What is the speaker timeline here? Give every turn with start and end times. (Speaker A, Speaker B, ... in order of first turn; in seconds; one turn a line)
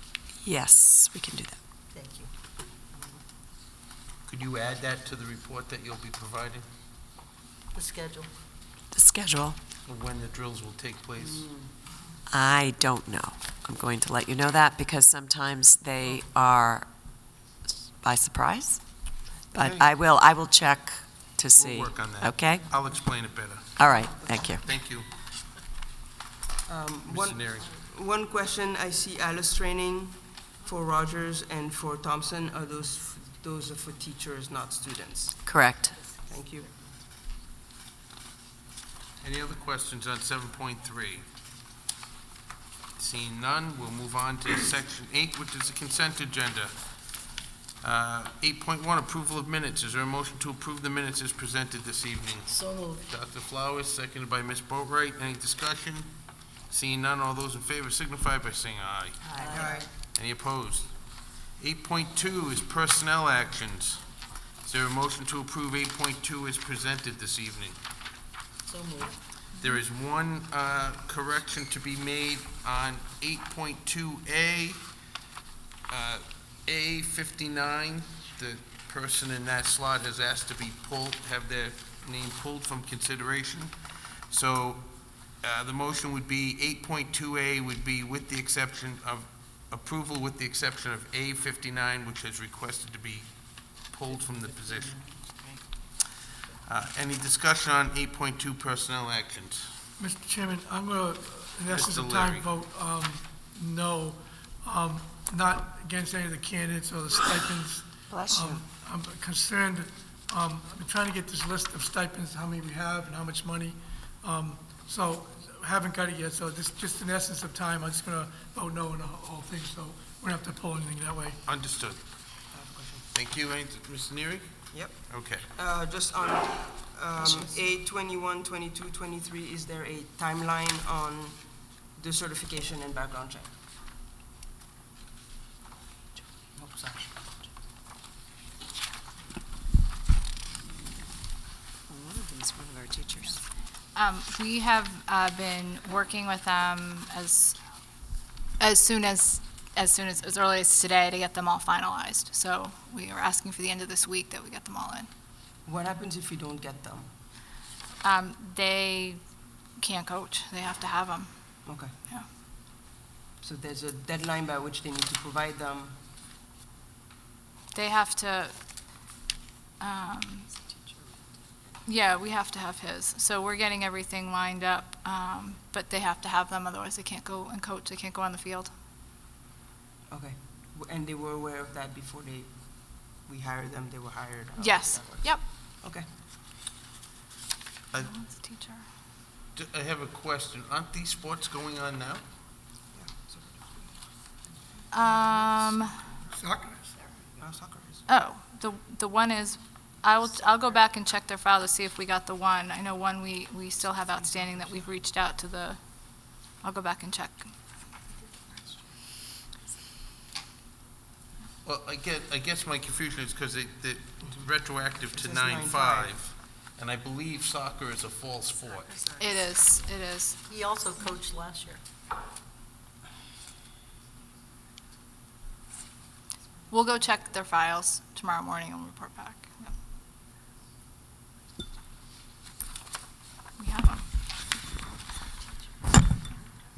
Speaker A: 0.4-1.6
Speaker B: 1.9-2.3
Speaker C: 4.3-6.6
Speaker B: 7.7-8.3
Speaker A: 8.9-9.6
Speaker C: 9.8-11.5
Speaker A: 12.3-16.9
Speaker A: 18.0-22.6
Speaker C: 19.5-19.9
Speaker C: 21.5-23.8
Speaker A: 23.8-24.6
Speaker D: 23.8-24.6
Speaker C: 24.6-25.1
Speaker D: 26.6-35.5
Speaker C: 27.1-27.7
Speaker A: 35.5-36.0
Speaker D: 36.2-36.7
Speaker C: 39.2-41.2
Speaker C: 43.0-46.8
Speaker C: 47.8-56.1
Speaker B: 52.5-53.0
Speaker C: 56.7-59.2
Speaker B: 59.3-59.9
Speaker D: 59.4-59.9
Speaker C: 60.1-64.1
Speaker C: 64.6-67.8
Speaker B: 68.6-69.2
Speaker C: 69.6-74.8
Speaker C: 75.9-83.7
Speaker C: 84.3-95.1
Speaker C: 96.6-99.7
Speaker E: 100.0-121.4
Speaker C: 101.7-102.5
Speaker A: 108.1-108.5
Speaker C: 121.5-122.0
Speaker D: 122.5-123.0
Speaker C: 123.1-125.5
Speaker D: 124.7-133.6
Speaker D: 136.6-137.0
Speaker A: 142.7-143.2
Speaker F: 143.9-147.6
Speaker F: 148.6-155.1
Speaker D: 155.6-157.1
Speaker F: 158.0-159.2
Speaker F: 159.8-162.3
Speaker D: 161.7-161.9
Speaker D: 163.4-166.0
Speaker F: 167.7-168.6
Speaker F: 169.8-170.5
Speaker F: 171.8-178.7
Speaker D: 180.1-186.1
Speaker F: 184.6-185.5
Speaker F: 187.9-188.8
Speaker C: 189.5-192.2
Speaker D: 192.9-193.9
Speaker F: 194.9-196.0
Speaker D: 195.4-196.1
Speaker E: 196.3-196.9
Speaker D: 197.4-198.0
Speaker F: 198.1-207.5
Speaker C: 211.6-219.0
Speaker D: 215.1-216.2
Speaker F: 219.2-220.4
Speaker B: 220.5-221.8
Speaker F: 226.7-229.7
Speaker F: 233.6-234.1